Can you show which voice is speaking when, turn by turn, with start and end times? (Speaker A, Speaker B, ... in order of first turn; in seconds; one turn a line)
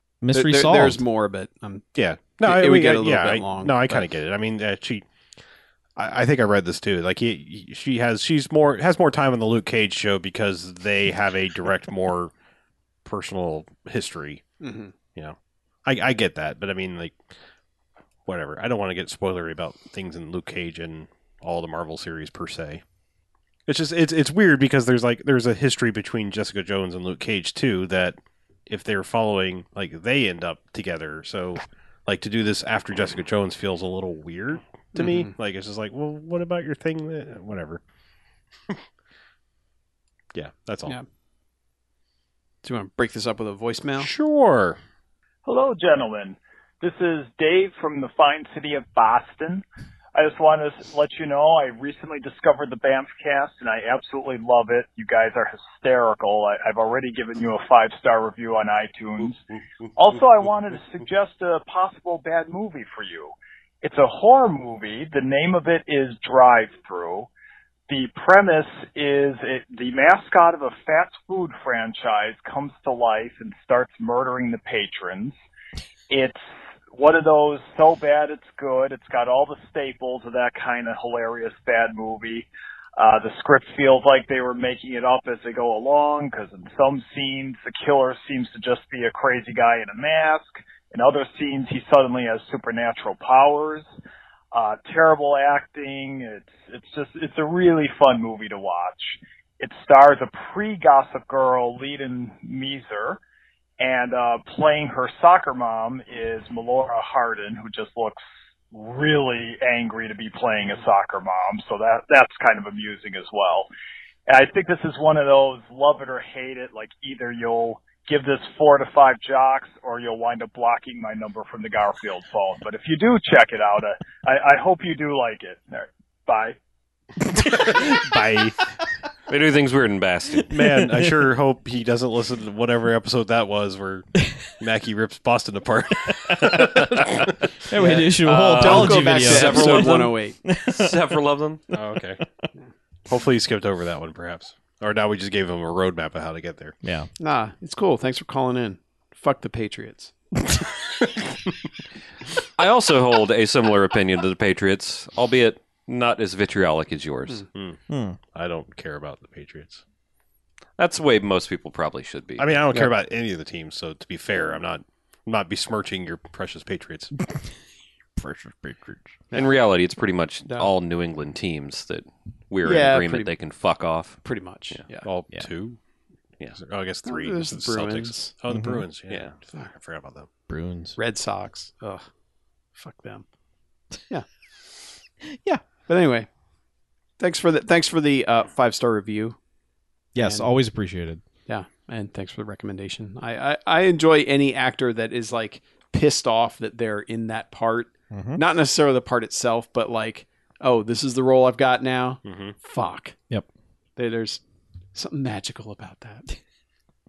Speaker A: 0.2-1.0
Speaker B: 0.3-1.9
Speaker C: 1.9-5.0
Speaker B: 2.4-4.1
Speaker C: 6.0-12.3
Speaker C: 13.1-14.4
Speaker B: 14.6-14.9
Speaker C: 15.2-17.2
Speaker C: 18.3-22.8
Speaker C: 23.7-28.2
Speaker C: 28.7-37.8
Speaker B: 35.0-35.3
Speaker C: 40.3-41.0
Speaker B: 42.6-44.1
Speaker C: 44.0-44.8
Speaker D: 45.5-49.6
Speaker D: 50.1-59.4
Speaker D: 60.0-67.3
Speaker D: 67.9-75.3
Speaker D: 76.1-76.4
Speaker D: 76.9-93.8
Speaker D: 94.5-103.2
Speaker D: 103.8-113.7
Speaker D: 114.3-126.6
Speaker A: 127.4-127.8
Speaker C: 127.5-128.6
Speaker E: 129.3-130.5
Speaker A: 130.4-131.1
Speaker C: 130.5-134.1
Speaker C: 134.6-137.4
Speaker A: 136.1-136.8
Speaker A: 137.7-139.9
Speaker B: 137.7-140.4
Speaker E: 138.2-141.6
Speaker A: 140.4-141.2
Speaker C: 141.7-142.2
Speaker C: 143.1-146.8
Speaker A: 146.8-147.1
Speaker B: 147.2-150.1
Speaker E: 152.6-157.4
Speaker A: 157.9-158.2
Speaker C: 158.3-159.8
Speaker E: 160.8-162.6
Speaker C: 162.4-167.1
Speaker A: 168.2-169.1
Speaker E: 169.3-174.2
Speaker B: 170.5-170.7
Speaker B: 172.6-173.3
Speaker B: 174.2-175.1
Speaker C: 175.0-175.8
Speaker C: 176.5-180.3
Speaker B: 177.1-178.4
Speaker A: 178.5-178.8
Speaker B: 179.4-179.7
Speaker A: 180.5-181.0
Speaker B: 181.0-182.0
Speaker B: 182.8-183.2
Speaker A: 185.3-185.6
Speaker B: 185.9-186.3
Speaker B: 187.2-189.4
Speaker A: 190.1-191.2
Speaker B: 190.2-190.5
Speaker B: 191.5-203.2
Speaker A: 198.1-198.4
Speaker C: 202.3-202.6
Speaker B: 204.0-204.4
Speaker B: 204.9-206.2